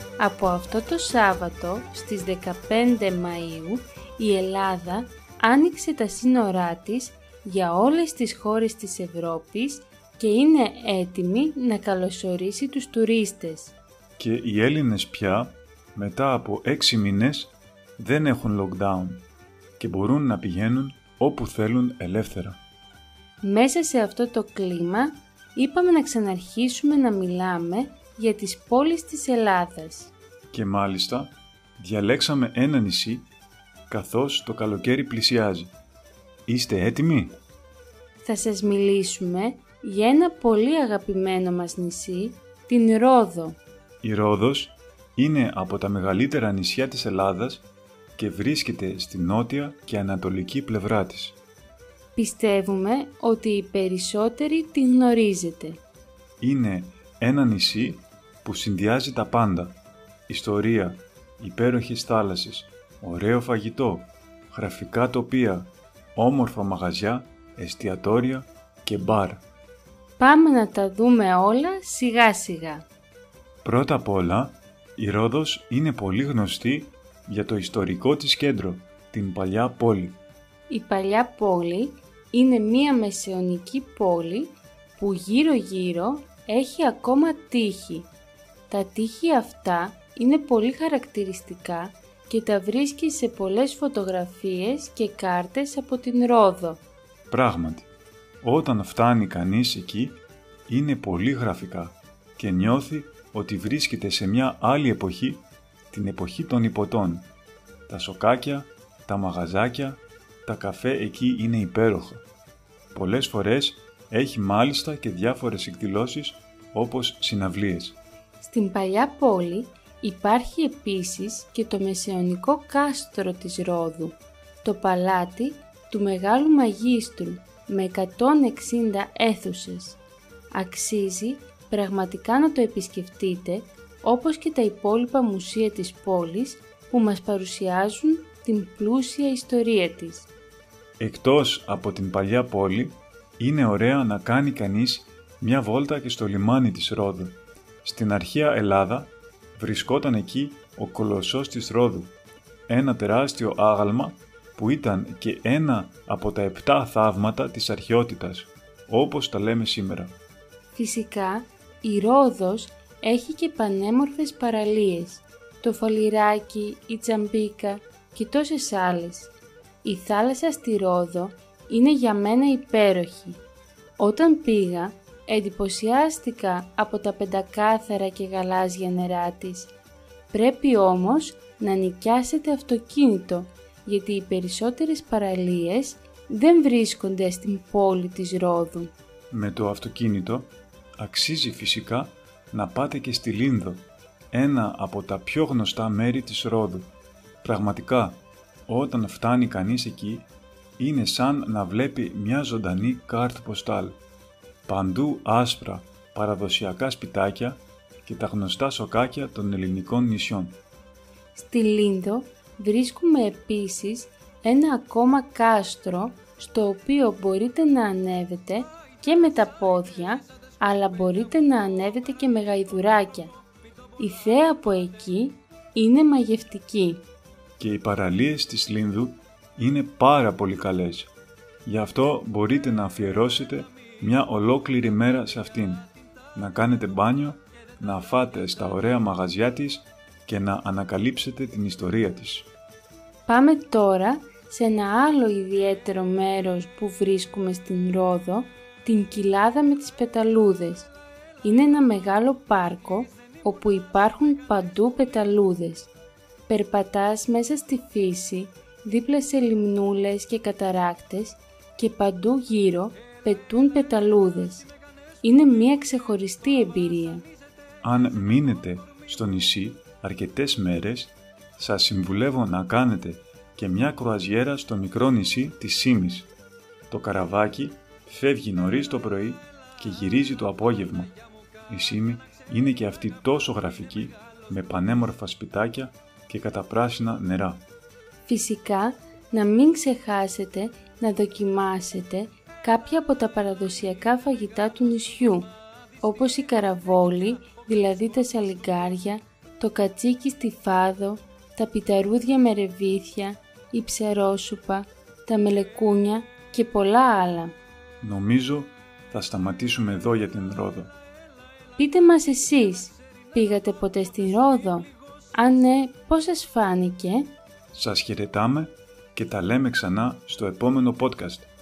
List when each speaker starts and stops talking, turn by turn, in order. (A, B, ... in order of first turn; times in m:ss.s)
0:00.2-0:13.8 A
0:14.2-0:19.2 B
0:19.8-0:22.6 B
0:23.4-0:30.1 A
0:30.5-0:33.3 B
0:33.9-0:35.7 B
0:36.5-0:37.4 B
0:38.2-0:43.6 A
0:44.0-0:47.6 B
0:48.2-0:51.4 B
0:52.1-0:55.8 A
0:56.4-1:09.4 B
1:10.2-1:12.8 A
1:13.6-1:20.2 B
1:20.7-1:28.1 A
1:28.7-1:36.8 A
1:37.3-1:37.9 B
1:38.4-1:47.3 B
1:47.9-1:52.2 B
1:52.9-1:58.0 B
1:58.4-2:10.0 A
2:10.5-2:20.3 A
2:21.0-2:32.1 B
2:32.7-2:40.1 B
2:40.7-2:49.3 A
2:49.8-2:53.4 A
2:54.0-2:59.7 A
3:00.3-3:08.9 A
3:09.3-3:16.9 B
3:17.4-3:24.0 B
3:24.7-3:30.6 B
3:31.3-3:43.3 A
3:44.0-3:47.0 A
3:47.6-3:51.1 B
3:51.6-4:02.5 B
4:03.2-4:10.9 A
4:11.4-4:15.9 A
4:16.5-4:24.7 A
4:25.2-4:27.2 A
4:27.8-4:36.3 B
4:36.9-4:41.2 B
4:41.7-4:47.6 B
4:48.2-5:07.6 A
5:08.0-5:10.9 B
5:11.8-5:17.3 A
5:17.7-5:21.5 B